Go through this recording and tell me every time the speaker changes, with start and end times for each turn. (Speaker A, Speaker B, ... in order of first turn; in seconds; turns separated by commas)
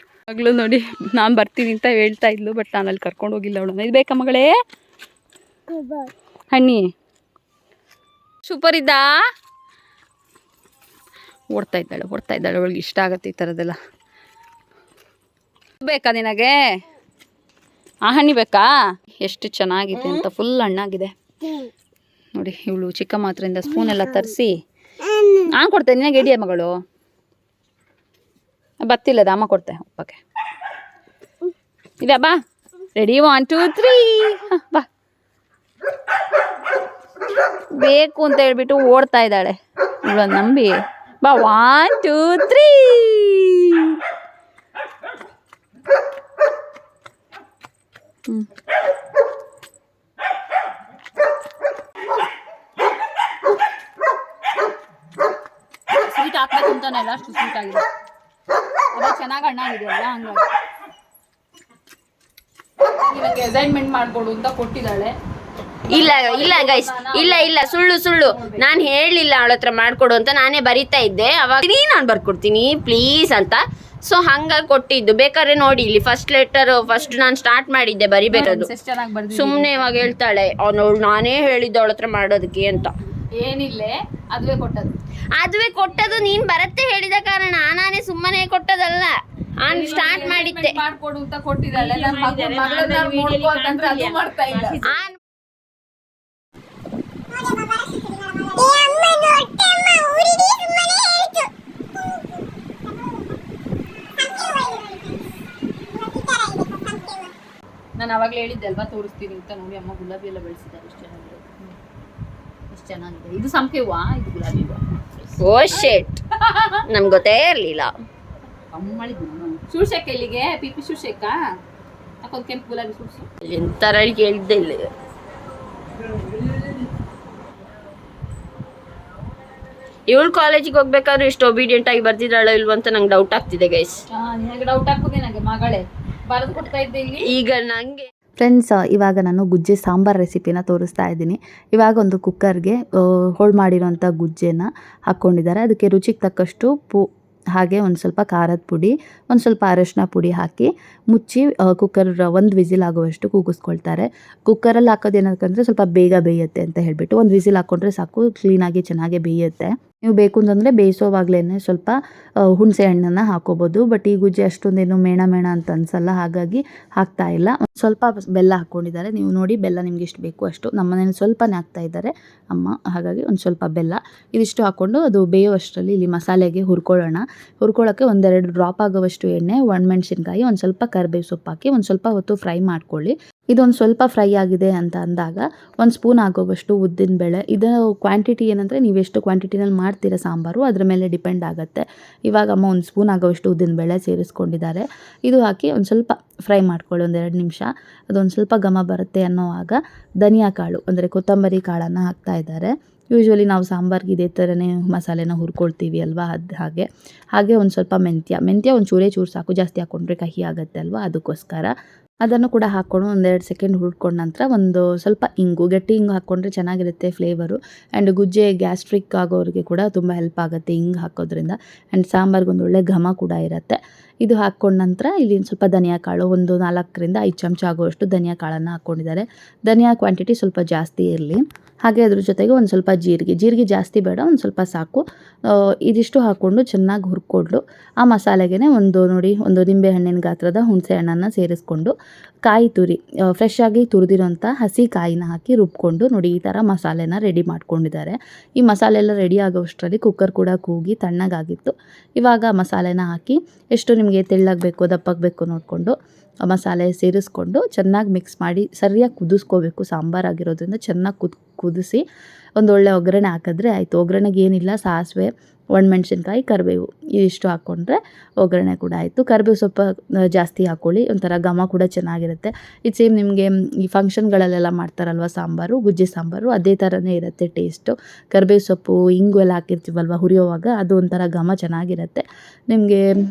Speaker A: 0.3-4.5, Speaker A: 6.5-6.9, Speaker A: 8.5-9.2, Speaker A: 11.5-13.8, Speaker A: 15.8-16.6, Speaker A: 18.1-18.7, Speaker A: 19.2-21.1, Speaker A: 22.4-24.6, Speaker A: 25.3-26.8, Speaker A: 28.8-30.2, Speaker A: 32.0-32.4, Speaker A: 33.0-34.9, Speaker A: 37.8-44.0, Speaker A: 56.1-57.9, Speaker A: 58.9-60.5, Speaker A: 63.0-65.1, Speaker A: 65.9-68.8, Speaker B: 65.9-78.7, Speaker A: 78.3-80.1, Speaker B: 79.3-83.0, Speaker A: 83.3-84.9, Speaker B: 85.3-90.8, Speaker A: 89.7-94.9, Speaker B: 91.7-94.2, Speaker B: 94.7-95.2, Speaker B: 98.8-99.3, Speaker A: 108.0-111.7, Speaker A: 112.7-116.8, Speaker B: 115.4-116.2, Speaker B: 116.9-117.9, Speaker A: 118.7-121.4, Speaker A: 122.2-123.3, Speaker B: 123.4-124.9, Speaker B: 130.1-134.0, Speaker A: 134.1-137.3, Speaker B: 137.2-138.1, Speaker C: 138.4-162.0, Speaker C: 162.6-211.7, Speaker C: 212.2-235.0, Speaker C: 235.9-241.9, Speaker C: 242.5-255.9, Speaker C: 256.5-262.0, Speaker C: 262.6-283.0